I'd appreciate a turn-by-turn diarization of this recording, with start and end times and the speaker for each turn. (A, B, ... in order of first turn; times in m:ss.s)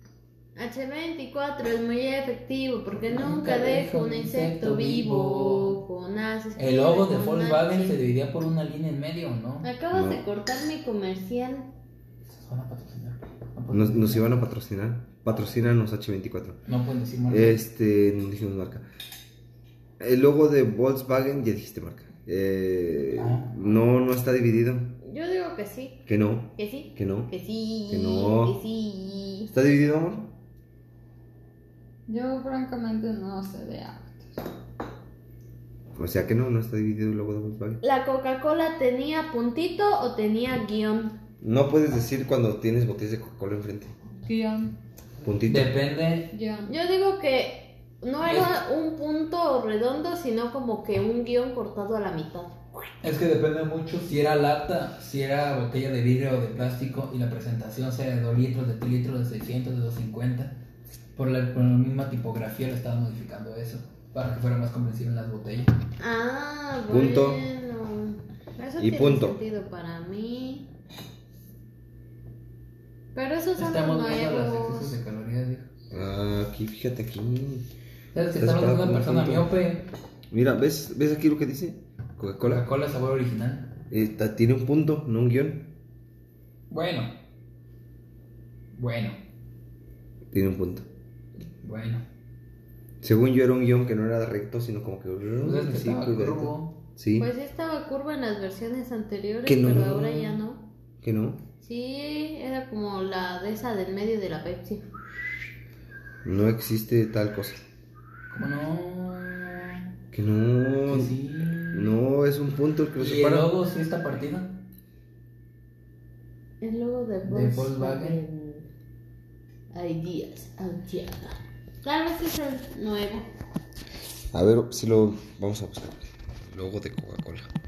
0:00.5-0:08.0 A
0:03.0-0:05.8 B
0:06.6-0:09.7 B
0:09.6-0:11.7 A
0:09.9-0:10.2 C
0:12.3-0:14.4 B
0:13.7-0:16.6 C
0:16.6-0:17.6 B
0:17.3-0:18.8 C
0:20.0-0:25.0 C
0:23.2-0:23.5 B
0:25.0-0:26.0 A
0:26.1-0:27.3 C
0:26.6-0:29.5 A
0:27.9-0:28.5 C
0:29.5-0:30.3 C
0:32.1-0:34.3 D
0:36.0-0:37.8 C
0:37.8-0:41.2 A
0:41.4-0:43.9 C
0:44.2-0:44.7 D
0:45.2-0:45.8 C
0:45.5-0:46.3 B
0:46.3-0:46.7 D
0:46.7-0:52.6 A
0:48.2-0:48.6 B
0:53.0-1:00.5 B
1:01.1-1:05.7 B
1:06.0-1:10.7 A
1:06.9-1:07.5 C
1:08.8-1:09.4 C
1:13.1-1:14.9 A
1:13.6-1:15.7 B
1:15.9-1:17.7 C
1:18.1-1:19.8 B
1:18.4-1:19.5 C
1:20.3-1:22.6 C
1:22.5-1:23.7 B
1:23.9-1:25.7 C
1:26.7-1:27.1 B
1:28.7-1:29.2 B
1:30.3-1:30.8 C
1:31.6-1:32.0 B
1:33.0-1:37.3 C
1:35.4-1:36.8 B
1:37.2-1:40.6 A
1:39.4-1:40.4 C
1:41.0-1:41.4 C
1:41.6-1:44.8 A
1:46.2-1:47.6 C
1:48.3-1:49.9 B
1:50.1-1:51.1 C
1:50.9-1:51.9 B
1:51.7-1:53.5 C
1:53.0-1:54.5 B
1:56.6-1:58.6 A
1:57.2-1:58.2 B
1:59.7-2:03.3 A
2:04.3-2:07.5 C